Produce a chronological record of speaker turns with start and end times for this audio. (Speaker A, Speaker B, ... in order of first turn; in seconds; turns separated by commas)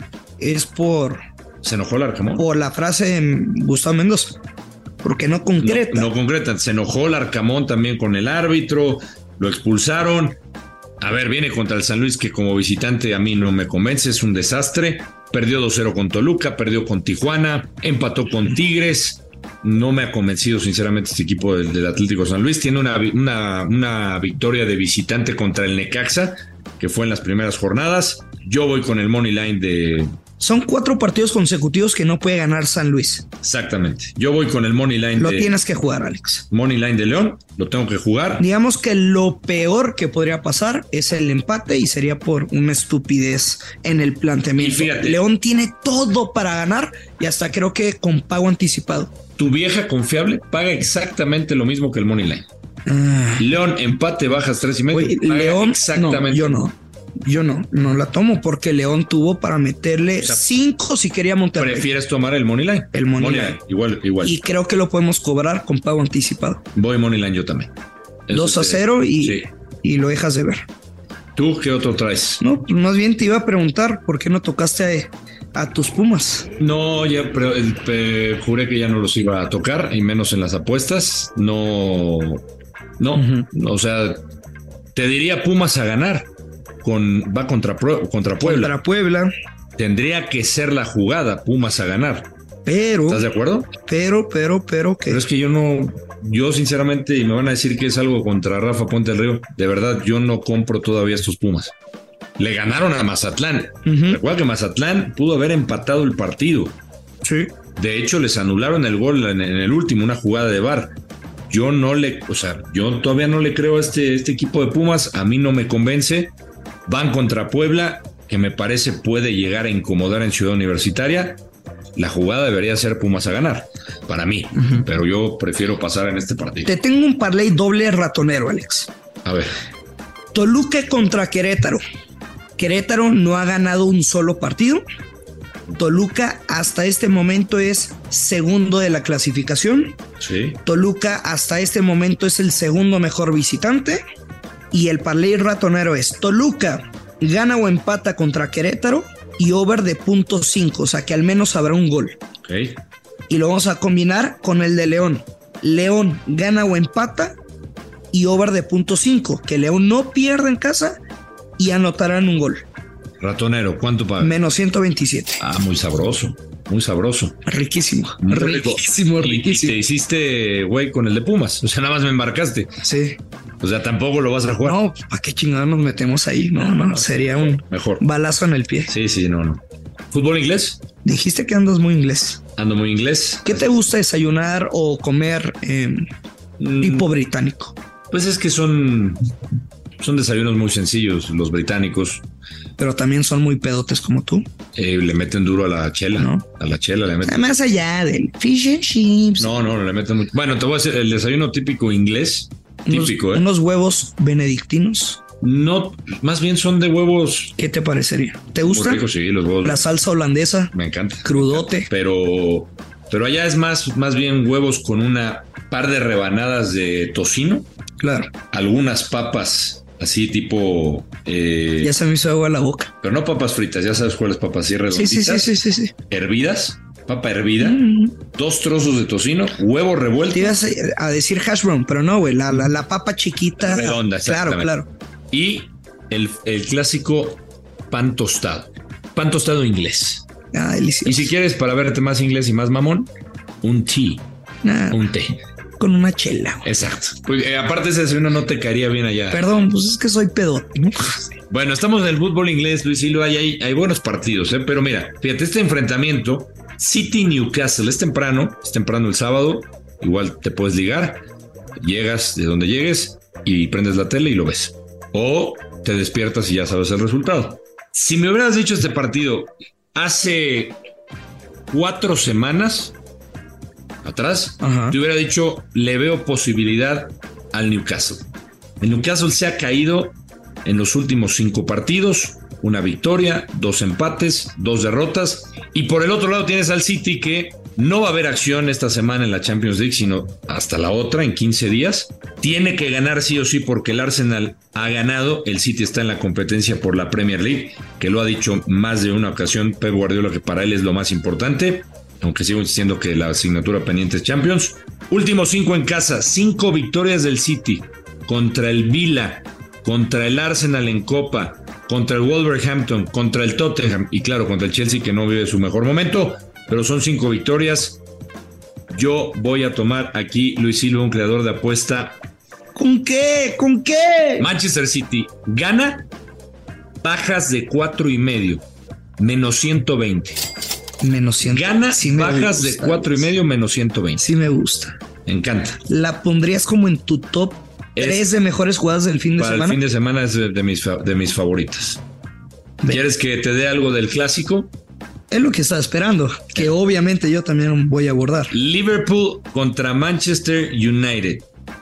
Speaker A: 0.4-1.2, Speaker B: 1.6-2.5, Speaker A: 2.4-4.4, Speaker A: 5.0-6.1, Speaker B: 5.6-10.4, Speaker B: 11.0-30.1, Speaker A: 30.4-33.2, Speaker B: 33.4-35.5, Speaker A: 35.2-36.5, Speaker B: 36.5-38.4, Speaker A: 38.4-49.1, Speaker B: 44.6-45.2, Speaker B: 49.4-52.5, Speaker A: 52.9-53.5, Speaker B: 53.4-56.7, Speaker A: 54.9-61.9, Speaker B: 61.6-64.4, Speaker A: 62.9-63.6, Speaker A: 64.2-66.6, Speaker B: 66.7-67.7, Speaker B: 68.3-69.5, Speaker A: 68.3-70.6, Speaker B: 71.3-72.4, Speaker A: 72.4-76.5, Speaker B: 76.6-82.4, Speaker B: 83.0-84.2, Speaker A: 83.1-83.5, Speaker B: 84.9-86.3, Speaker B: 86.8-88.7, Speaker A: 88.4-89.3, Speaker B: 89.8-92.3, Speaker A: 92.7-93.2, Speaker B: 93.1-93.7, Speaker A: 93.8-95.2, Speaker B: 95.1-101.7, Speaker B: 102.4-106.8, Speaker A: 103.8-104.2, Speaker A: 107.2-107.5, Speaker B: 107.8-110.9, Speaker B: 111.5-116.3, Speaker B: 116.9-121.4, Speaker B: 122.0-126.7, Speaker A: 126.6-128.9, Speaker B: 129.2-129.5, Speaker A: 130.3-131.8, Speaker A: 132.6-134.8, Speaker A: 135.8-140.0, Speaker B: 140.2-140.6, Speaker A: 140.6-144.0, Speaker A: 144.7-152.2, Speaker B: 152.4-152.8, Speaker A: 153.3-157.4, Speaker A: 158.1-161.0, Speaker A: 161.6-162.7, Speaker B: 163.2-164.4, Speaker A: 164.2-165.4, Speaker B: 165.4-167.4, Speaker A: 167.4-169.8, Speaker B: 168.2-172.7, Speaker A: 172.8-173.2, Speaker B: 173.6-174.8, Speaker A: 174.6-178.9, Speaker B: 176.7-178.0, Speaker B: 178.9-180.8, Speaker A: 181.0-182.4, Speaker B: 182.6-183.7, Speaker A: 183.4-186.1, Speaker B: 186.6-187.1, Speaker A: 186.8-187.8, Speaker B: 188.1-189.3, Speaker B: 190.0-192.2, Speaker A: 192.8-194.5, Speaker B: 194.7-197.4, Speaker A: 196.2-196.4, Speaker A: 197.2-199.5, Speaker B: 199.4-203.5, Speaker A: 202.9-205.2, Speaker B: 205.4-207.5, Speaker A: 207.6-209.0, Speaker B: 208.6-209.8, Speaker A: 209.6-210.7, Speaker B: 210.7-217.7, Speaker A: 211.2-211.9, Speaker A: 218.0-218.3, Speaker B: 218.5-221.9, Speaker A: 221.8-222.9, Speaker B: 223.0-225.5, Speaker A: 224.9-225.9, Speaker B: 226.1-230.6, Speaker A: 227.6-228.2, Speaker A: 230.3-234.9, Speaker B: 233.6-234.7, Speaker B: 235.3-240.2, Speaker A: 240.5-241.3, Speaker B: 241.0-243.1, Speaker B: 243.6-244.2, Speaker A: 244.6-245.0, Speaker B: 244.9-245.4, Speaker A: 245.8-246.7, Speaker B: 246.6-249.5, Speaker A: 249.3-251.3, Speaker B: 251.5-261.2, Speaker B: 261.8-270.8, Speaker B: 271.7-272.9, Speaker B: 274.0-278.3, Speaker A: 274.6-274.9, Speaker B: 278.8-318.0, Speaker B: 318.9-322.2, Speaker A: 322.7-324.5, Speaker B: 324.4-326.1, Speaker B: 327.0-328.6, Speaker B: 329.2-330.4, Speaker A: 331.0-333.3, Speaker B: 331.4-334.3, Speaker A: 334.2-335.0, Speaker B: 335.2-335.8, Speaker A: 335.9-339.8, Speaker B: 337.9-338.2, Speaker B: 339.4-342.0, Speaker B: 342.9-344.7, Speaker A: 345.3-348.5, Speaker B: 348.5-351.4